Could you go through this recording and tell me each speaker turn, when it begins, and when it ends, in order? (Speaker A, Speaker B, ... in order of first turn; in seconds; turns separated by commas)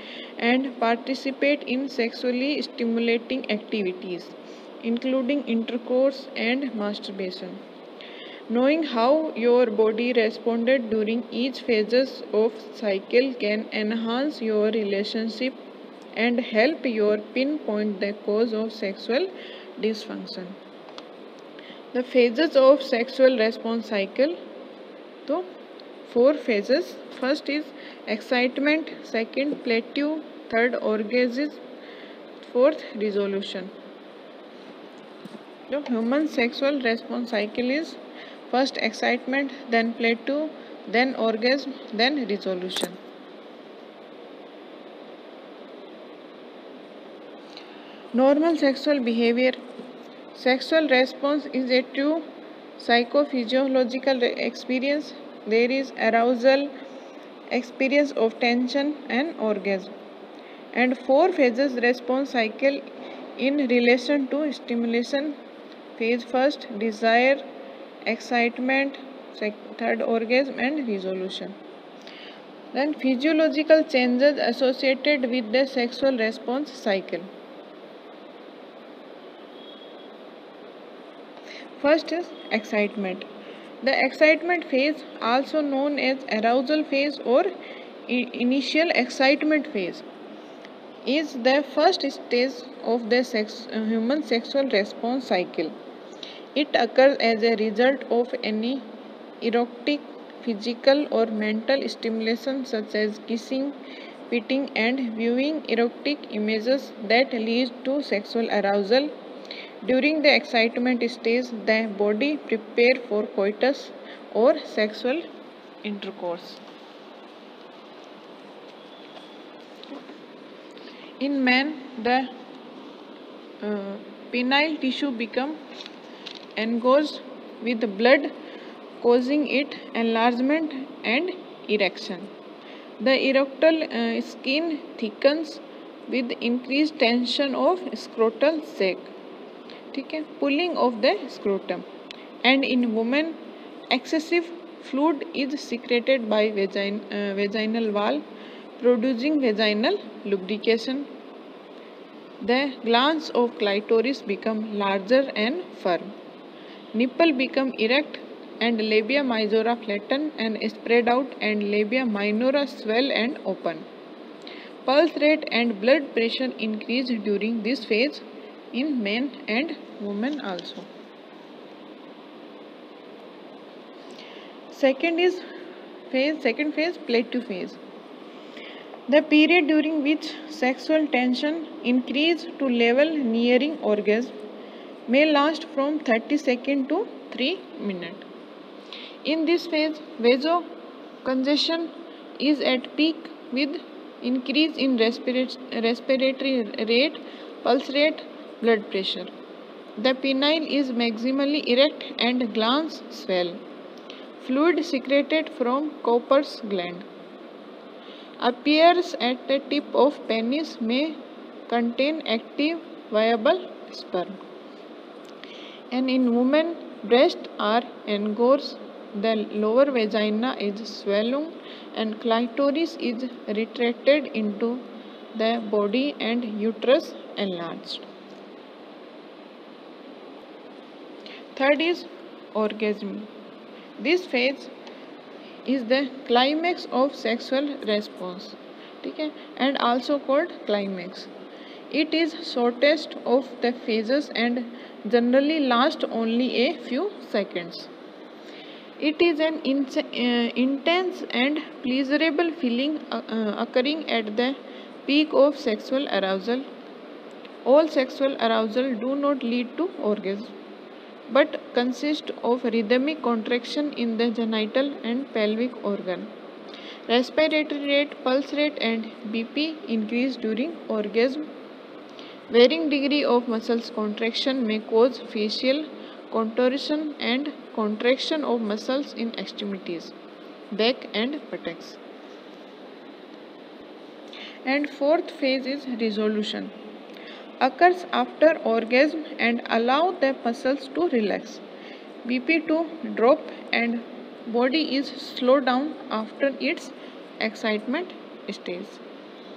Speaker A: 0.4-7.6, Speaker A: 8.5-15.6, Speaker A: 16.1-20.6, Speaker A: 21.9-24.4, Speaker A: 26.1-31.6, Speaker A: 32.4-33.7, Speaker A: 35.7-38.0, Speaker A: 38.5-43.0, Speaker A: 48.1-49.6, Speaker A: 50.3-52.2, Speaker A: 52.8-56.7, Speaker A: 57.5-59.9, Speaker A: 60.7-62.9, Speaker A: 63.4-65.3, Speaker A: 66.0-67.4, Speaker A: 68.0-71.5, Speaker A: 72.7-77.3, Speaker A: 81.8-83.3, Speaker A: 83.8-87.5, Speaker A: 88.1-90.0, Speaker A: 91.0-95.7, Speaker A: 96.5-98.8, Speaker A: 99.4-109.1, Speaker A: 109.8-115.2, Speaker A: 115.8-116.6, Speaker A: 121.2-122.3, Speaker A: 123.6-125.6, Speaker A: 126.5-128.3, Speaker A: 129.0-132.3, Speaker A: 133.0-139.1, Speaker A: 139.9-141.8, Speaker A: 142.4-143.4, Speaker A: 143.9-148.2, Speaker A: 148.8-151.1, Speaker A: 152.4-156.1, Speaker A: 156.9-163.8, Speaker A: 164.8-170.9, Speaker A: 174.7-175.4, Speaker A: 176.1-177.8, Speaker A: 179.1-184.3, Speaker A: 185.1-188.2, Speaker A: 189.2-190.7, Speaker A: 191.2-199.3, Speaker A: 200.0-203.6, Speaker A: 204.4-207.1, Speaker A: 208.4-214.4, Speaker A: 215.9-228.1, Speaker A: 231.5-233.3, Speaker A: 234.0-234.7, Speaker A: 235.7-241.3, Speaker A: 241.9-247.9, Speaker A: 249.0-256.7, Speaker A: 257.6-260.5, Speaker A: 261.3-266.3, Speaker A: 267.1-271.5, Speaker A: 272.5-280.1, Speaker A: 280.7-282.0, Speaker A: 284.6-286.7, Speaker A: 287.6-291.6, Speaker A: 292.2-299.0